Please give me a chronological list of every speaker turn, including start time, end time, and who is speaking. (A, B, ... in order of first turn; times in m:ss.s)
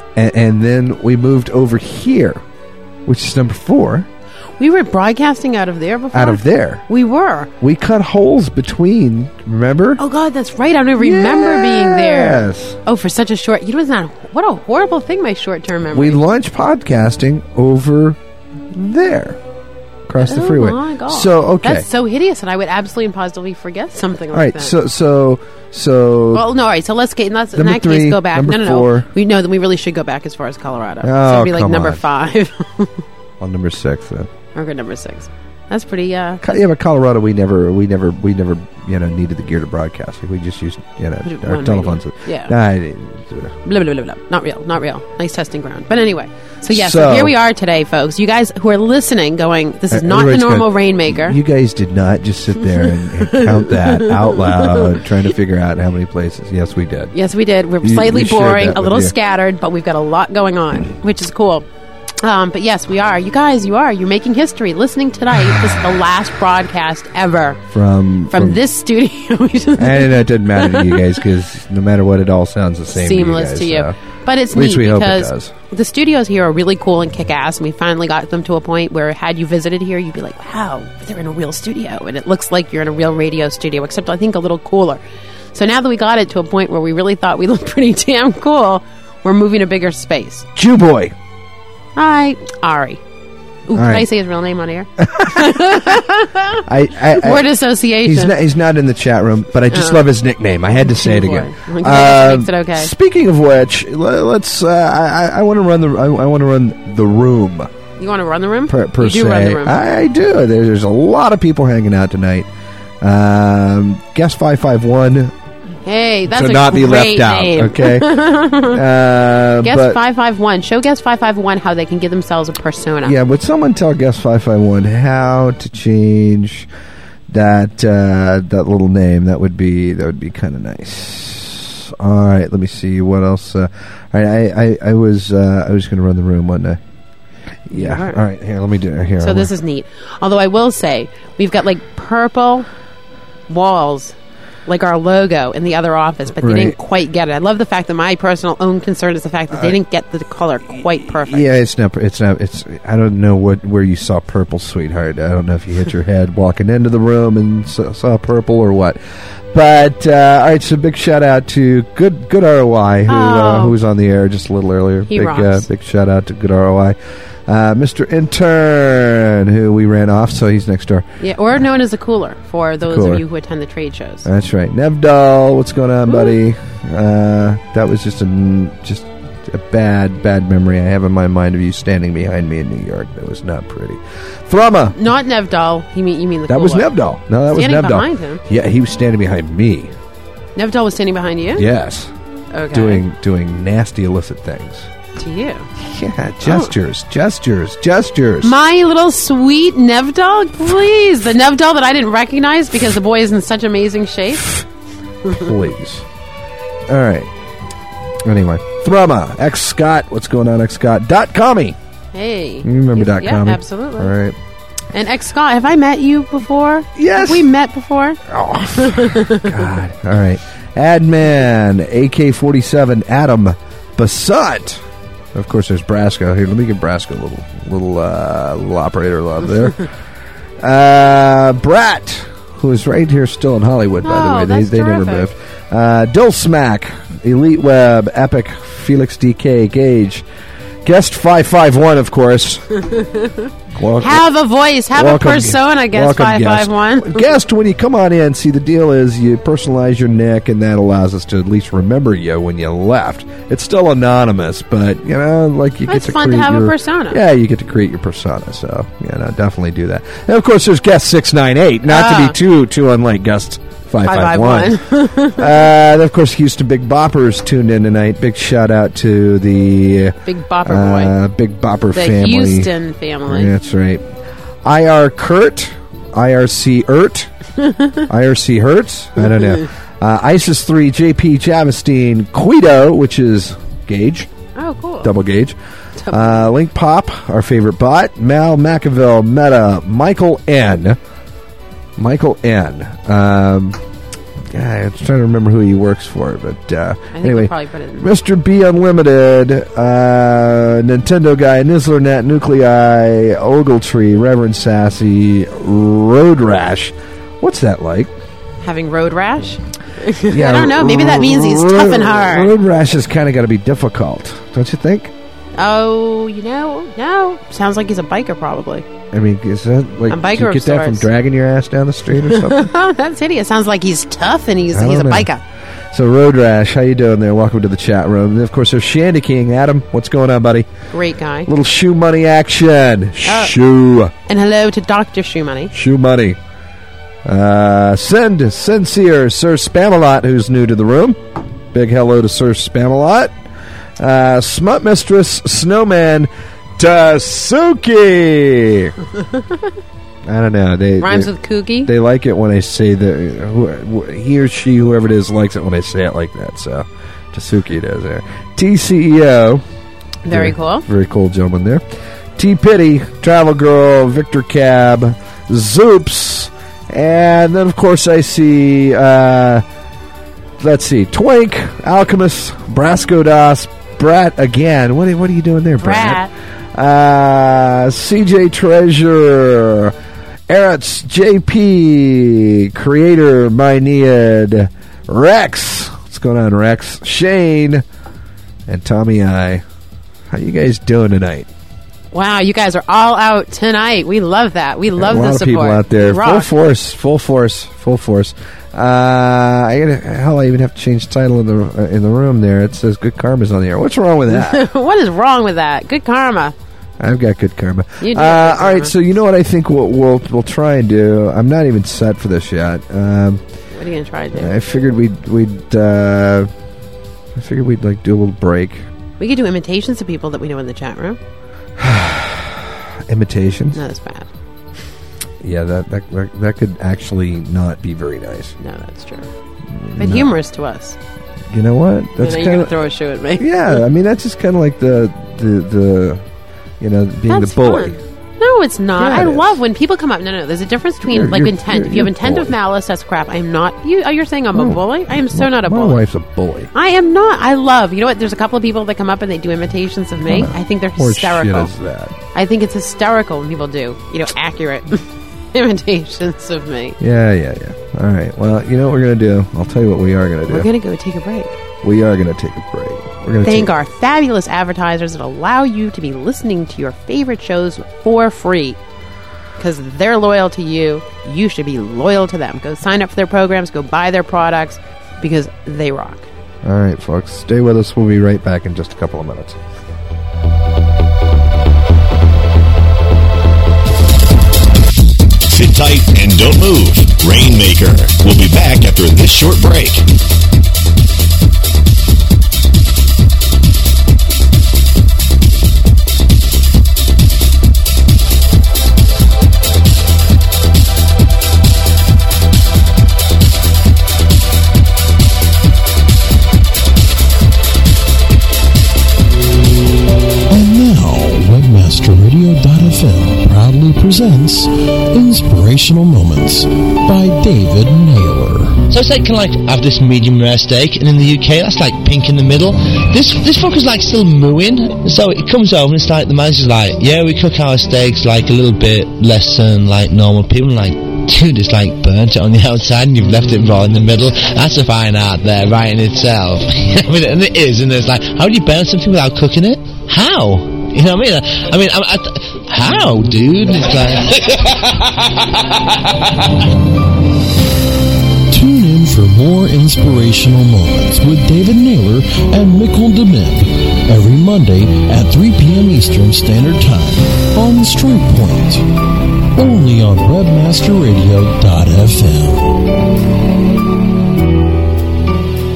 0:00.2-0:02.4 A
0:03.1-0:04.1 A
0:04.6-0:07.5 B
0:06.1-0:06.8 A
0:07.6-0:10.0 A
0:10.0-0:16.2 B
0:11.0-0:12.8 A
0:15.9-0:18.2 A
0:18.7-0:19.4 A
0:20.1-0:21.9 A
0:20.2-0:24.8 B
0:24.3-0:26.5 A
0:26.3-0:33.0 B
0:27.6-0:29.1 A
0:31.0-0:32.0 A
0:33.4-0:34.3 A
0:34.5-0:36.4 B
0:36.4-0:43.5 A
0:41.2-0:42.5 B
0:43.6-0:51.4 B
0:46.7-0:47.4 A
0:49.9-0:57.2 A
0:53.2-0:55.0 B
0:57.1-1:01.7 B
0:57.8-0:59.1 A
1:02.2-1:07.6 B
1:07.7-1:08.6 A
1:08.3-1:11.1 B
1:09.8-1:14.0 A
1:12.9-1:25.0 B
1:14.5-1:15.5 A
1:25.5-1:30.5 B
1:30.6-1:31.2 A
1:32.0-1:33.0 B
1:33.7-1:38.4 B
1:33.7-1:34.1 A
1:35.0-1:35.9 A
1:36.6-1:47.7 A
1:39.7-1:40.0 B
1:40.8-1:42.9 B
1:48.0-1:49.8 B
1:48.7-1:52.5 A
1:53.0-1:55.3 A
1:55.9-1:58.8 B
1:56.3-2:00.0 A
1:59.6-2:03.2 B
2:03.0-2:06.7 A
2:07.3-2:16.8 A
2:17.7-2:19.5 A
2:17.7-2:18.2 B
2:19.2-2:22.7 B
2:23.5-2:24.2 B
2:24.7-2:31.5 B
2:26.4-2:26.8 A
2:29.5-2:29.8 A
2:31.0-2:39.0 A
2:39.5-2:51.1 A
2:43.1-2:43.8 B
2:45.1-2:45.7 B
2:51.2-2:54.3 B
2:52.8-2:53.2 A
2:54.2-3:05.0 A
2:56.1-2:56.4 B
3:04.9-3:07.0 B
3:06.5-3:09.9 A
3:07.5-3:08.4 B
3:10.6-3:11.7 B
3:11.6-3:12.1 A
3:12.5-3:13.0 B
3:12.7-3:14.9 A
3:15.2-3:15.7 B
3:15.8-3:18.5 A
3:16.4-3:16.7 B
3:18.4-3:24.6 B
3:25.3-3:26.0 A
3:26.9-3:27.3 A
3:28.2-3:31.8 A
3:32.1-3:34.2 B
3:32.6-3:34.4 A
3:34.9-3:38.2 B
3:37.0-3:37.5 A
3:38.3-3:44.8 A
3:38.8-3:39.6 B
3:45.3-3:49.9 A
3:50.6-4:00.2 A
3:54.0-3:55.3 B
4:00.8-4:02.7 A
4:02.9-4:03.5 B
4:03.7-4:04.3 A
4:04.0-4:07.3 B
4:04.9-4:32.7 A
4:15.9-4:17.2 B
4:21.9-4:22.4 B
4:24.0-4:25.7 B
4:30.2-4:31.2 B
4:31.9-4:33.5 B
4:33.3-4:34.0 A
4:34.6-4:37.3 A
4:37.7-4:38.0 B
4:38.1-4:44.3 A
4:44.6-4:45.1 B
4:45.0-4:45.6 A
4:46.0-4:46.5 B
4:46.1-4:51.0 A
4:52.0-4:53.8 A
4:54.5-5:08.1 A
4:57.1-4:58.1 B
5:08.6-5:12.5 B
5:10.3-5:15.1 A
5:15.6-5:18.9 B
5:19.1-5:22.7 A
5:20.1-5:21.1 B
5:22.2-5:25.4 B
5:24.7-5:25.3 A
5:25.9-5:30.7 A
5:30.9-5:31.5 B
5:31.5-5:34.1 A
5:33.2-5:33.5 B
5:34.3-5:35.7 B
5:35.7-5:36.4 A
5:37.2-5:41.2 A
5:41.7-5:43.4 A
5:44.0-5:48.9 A
5:50.3-5:59.6 A
5:51.0-5:51.9 B
6:00.2-6:00.9 B
6:00.3-6:01.8 A
6:02.4-6:09.6 A
6:10.6-6:16.2 A
6:15.8-6:16.3 B
6:16.7-6:20.0 A
6:20.5-6:27.8 A
6:28.7-6:29.6 A
6:30.3-6:31.5 A
6:32.1-6:36.5 B
6:35.0-6:44.7 A
6:44.3-6:46.6 B
6:47.0-6:53.4 A
6:48.0-6:49.0 B
6:53.7-6:54.5 B
6:54.3-6:56.5 A
6:57.4-6:58.9 A
6:59.2-7:01.2 B
7:01.8-7:03.8 A
7:03.7-7:04.3 B
7:05.4-7:08.6 A
7:08.6-7:09.3 B
7:09.7-7:10.4 A
7:10.0-7:11.0 B
7:11.5-7:12.8 A
7:12.2-7:13.8 B
7:13.4-7:16.2 A
7:16.8-7:18.0 A
7:17.3-7:26.0 B
7:19.0-7:19.6 A
7:21.1-7:22.6 A
7:24.5-7:26.7 A
7:26.7-7:31.8 B
7:30.2-7:32.2 A
7:32.3-7:37.0 B
7:37.0-7:40.7 A
7:40.5-7:41.6 B
7:41.8-7:43.8 A
7:43.4-7:48.8 B
7:49.6-7:56.3 B
7:56.6-7:59.6 A
8:05.5-8:10.0 C
8:30.5-8:38.9 D
8:38.9-9:05.3 E
9:08.5-9:18.9 D
9:19.5-9:22.9 D